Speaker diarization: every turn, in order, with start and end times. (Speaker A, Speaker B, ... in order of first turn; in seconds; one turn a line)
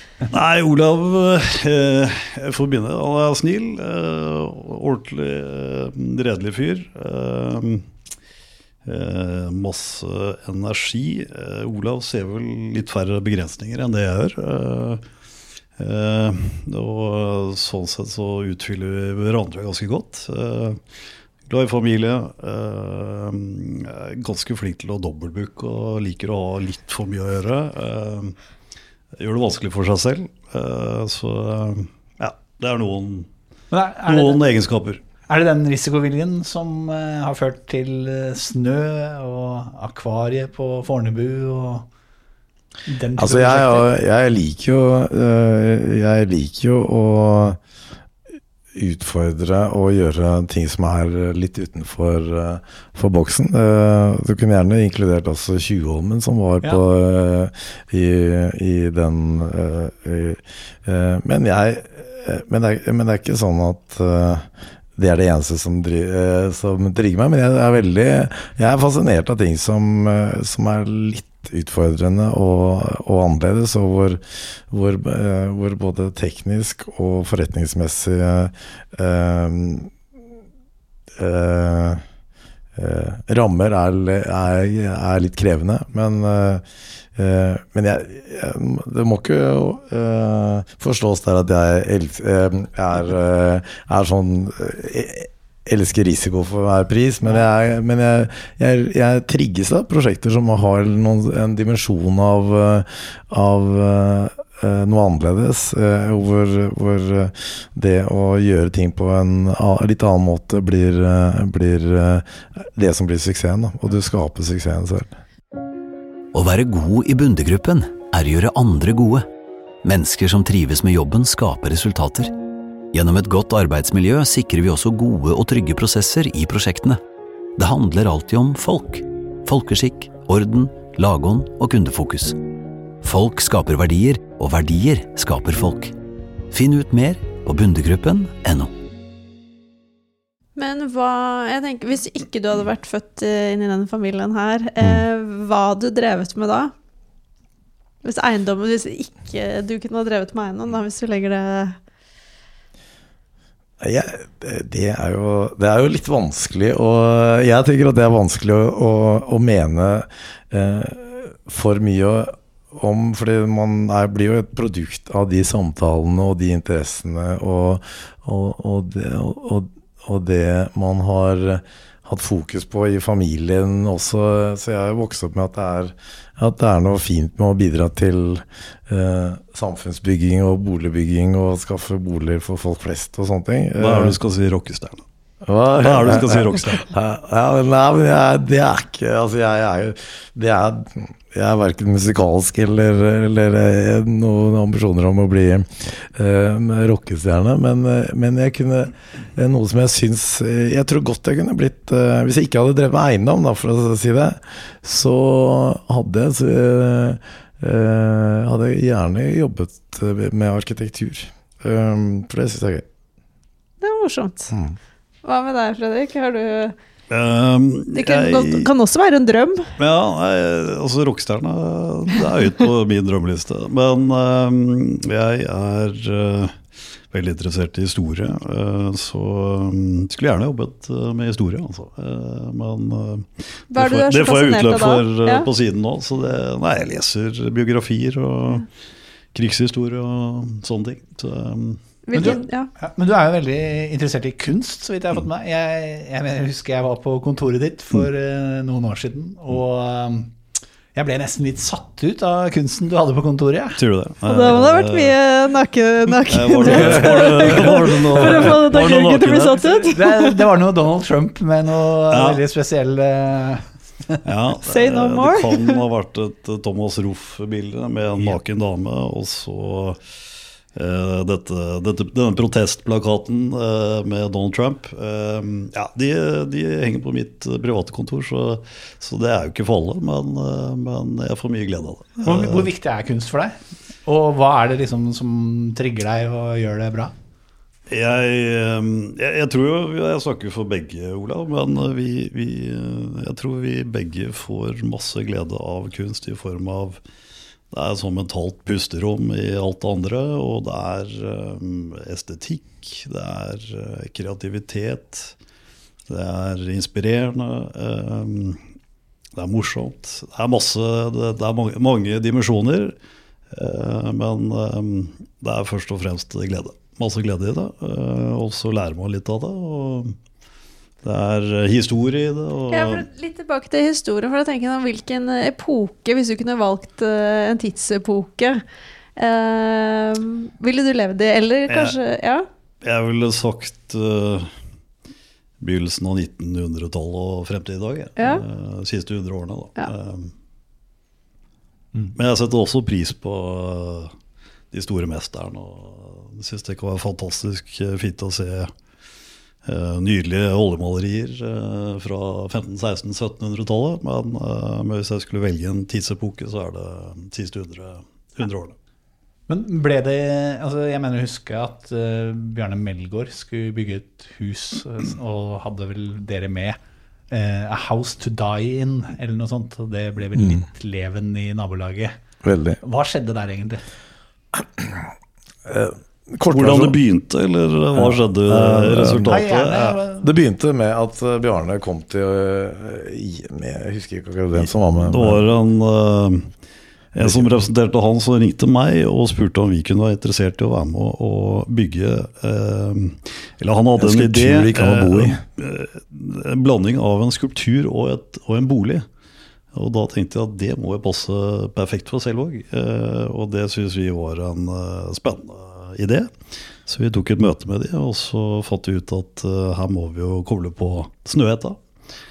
Speaker A: 0.3-7.9
Speaker A: 8.8-15.0
Speaker A: 15.8-20.8
Speaker A: 21.5-28.4
Speaker A: 29.2-33.3
Speaker B: 33.7-34.4
Speaker A: 34.0-35.0
Speaker B: 35.3-41.9
Speaker B: 42.9-43.9
Speaker C: 43.2-47.6
Speaker C: 48.8-79.9
Speaker C: 81.2-82.0
Speaker C: 82.8-86.6
Speaker C: 87.2-115.2
Speaker D: 116.3-119.3
Speaker D: 119.8-122.3
Speaker D: 122.9-127.0
Speaker D: 127.6-132.4
Speaker D: 133.0-135.9
Speaker D: 136.5-138.7
Speaker E: 140.6-146.7
Speaker E: 148.0-151.8
Speaker C: 153.8-184.2
Speaker A: 183.8-185.0
Speaker C: 185.4-212.9
Speaker A: 185.8-186.8
Speaker E: 213.8-214.5
Speaker C: 214.5-214.8
Speaker E: 215.2-216.8
Speaker A: 217.1-218.7
Speaker E: 217.9-219.7
Speaker A: 219.8-226.6
Speaker A: 227.1-238.7
Speaker E: 233.7-235.5
Speaker A: 239.3-242.4
Speaker E: 242.1-242.7
Speaker B: 242.2-250.3
Speaker B: 250.9-253.8
Speaker A: 253.8-255.2
Speaker E: 254.2-260.5
Speaker A: 256.1-259.6
Speaker B: 259.5-264.2
Speaker A: 262.1-262.4
Speaker A: 264.2-270.0
Speaker E: 264.6-265.8
Speaker A: 270.7-282.7
Speaker B: 282.2-287.1
Speaker A: 287.9-297.0
Speaker A: 297.7-305.4
Speaker A: 306.1-308.6
Speaker A: 309.4-313.0
Speaker A: 313.5-320.1
Speaker A: 321.0-323.1
Speaker E: 322.7-328.6
Speaker E: 329.2-332.5
Speaker A: 331.7-332.0
Speaker A: 332.8-334.5
Speaker A: 335.6-340.3
Speaker E: 338.2-338.4
Speaker A: 342.1-344.1
Speaker A: 344.7-348.7
Speaker A: 349.6-358.8
Speaker B: 359.5-366.8
Speaker B: 367.3-372.1
Speaker C: 372.4-372.8
Speaker B: 372.8-373.8
Speaker C: 374.6-375.1
Speaker C: 375.7-377.0
Speaker A: 376.5-379.9
Speaker C: 378.0-385.4
Speaker B: 379.3-380.3
Speaker A: 384.6-386.5
Speaker C: 387.1-387.5
Speaker A: 387.2-399.1
Speaker C: 394.0-395.4
Speaker A: 399.7-406.3
Speaker A: 406.9-411.8